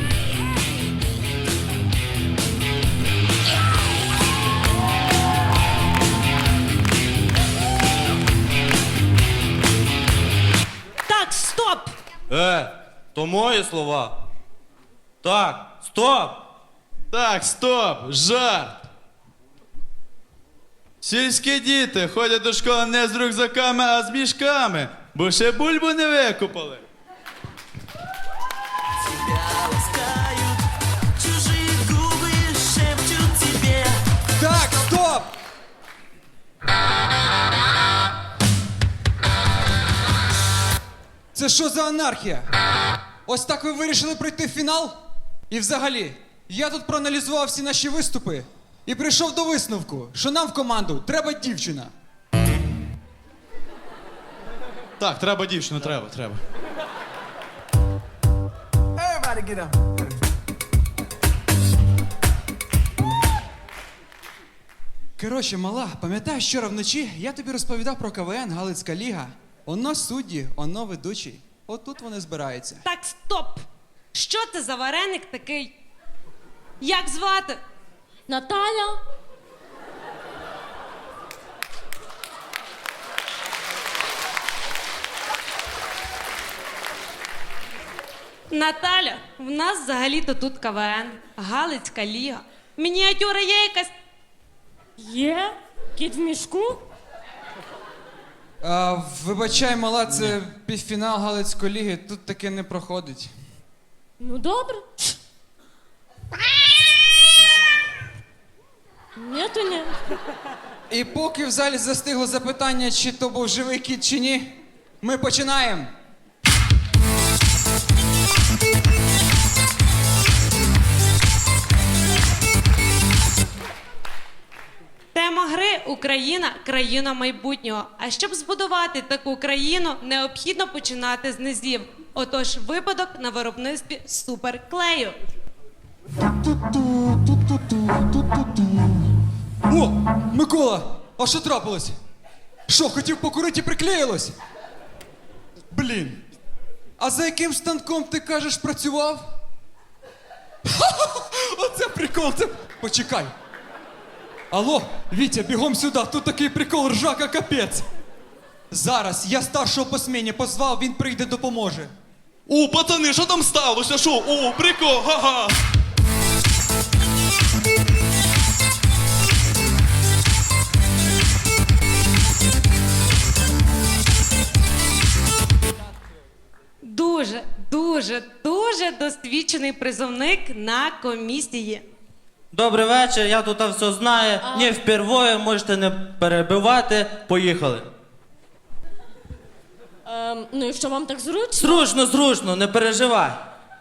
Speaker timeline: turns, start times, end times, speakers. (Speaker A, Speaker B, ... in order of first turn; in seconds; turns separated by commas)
Speaker A: 11.1-11.9, Speaker B: 12.3-14.2, Speaker B: 15.2-16.4, Speaker C: 17.1-18.8, Speaker C: 21.0-26.8, Speaker B: 29.4-30.6, Speaker B: 31.2-34.0, Speaker D: 34.4-35.3, Speaker D: 41.3-42.5, Speaker D: 43.3-45.0, Speaker D: 45.5-51.9, Speaker C: 55.0-56.4, Speaker D: 59.1-59.6, Speaker D: 65.2-72.8, Speaker A: 72.8-73.6, Speaker A: 74.1-75.7, Speaker A: 76.8-77.6, Speaker E: 78.3-79.0, Speaker A: 88.5-93.9, Speaker E: 95.0-96.8, Speaker D: 98.6-103.3, Speaker E: 104.2-105.2, Speaker E: 109.2-109.9, Speaker D: 110.9-115.9, Speaker A: 125.2-135.2, Speaker D: 136.7-137.2, Speaker D: 139.7-141.9, Speaker D: 142.7-144.3, Speaker D: 145.7-146.2, Speaker D: 147.0-149.2, Speaker D: 150.7-153.3, Speaker D: 154.5-157.9, Speaker D: 158.7-161.9, Speaker C: 162.5-165.6, Speaker A: 176.8-181.8, Speaker B: 182.5-187.9, Speaker E: 184.4-184.8, Speaker E: 190.1-191.9, Speaker B: 191.6-193.4